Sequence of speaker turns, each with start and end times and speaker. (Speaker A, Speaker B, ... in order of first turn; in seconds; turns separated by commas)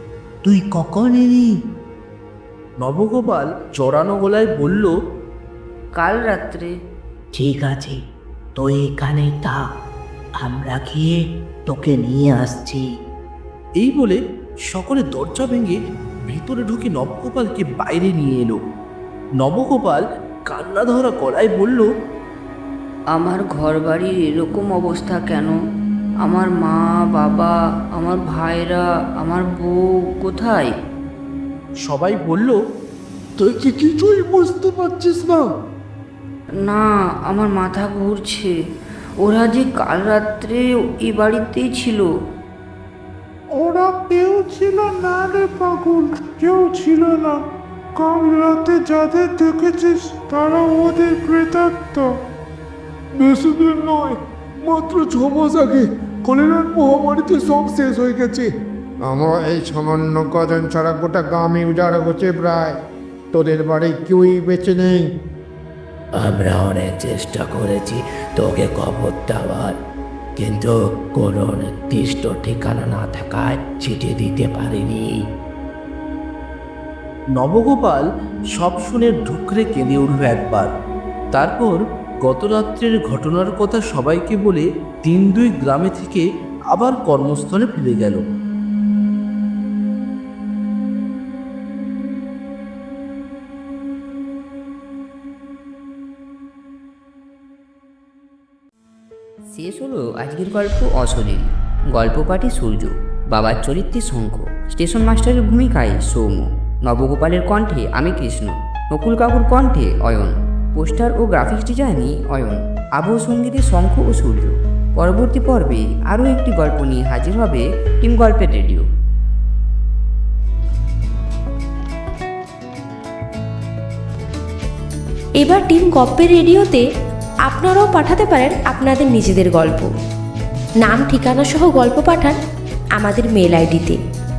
Speaker A: 2.8-4.9, Speaker B: 6.0-6.7, Speaker C: 8.7-9.4, Speaker C: 10.5-11.0, Speaker C: 11.7-12.7, Speaker D: 12.4-12.8, Speaker A: 13.8-14.2, Speaker A: 14.7-15.8, Speaker A: 16.3-18.6, Speaker A: 19.4-21.9, Speaker B: 23.1-25.6, Speaker B: 26.2-30.7, Speaker A: 31.8-32.6, Speaker E: 33.4-35.5, Speaker B: 36.6-38.5, Speaker B: 39.2-42.1, Speaker D: 43.6-47.2, Speaker D: 48.2-48.7, Speaker D: 49.2-51.9, Speaker E: 53.1-58.0, Speaker F: 58.0-58.5, Speaker F: 59.0-62.8, Speaker F: 63.3-65.1, Speaker C: 66.2-69.6, Speaker C: 70.4-70.7, Speaker C: 71.2-74.8, Speaker A: 77.4-78.0, Speaker A: 78.6-80.7, Speaker A: 81.3-88.2, Speaker B: 99.5-118.8, Speaker G: 125.4-126.8, Speaker G: 127.5-129.9, Speaker G: 130.8-132.4, Speaker G: 132.9-134.0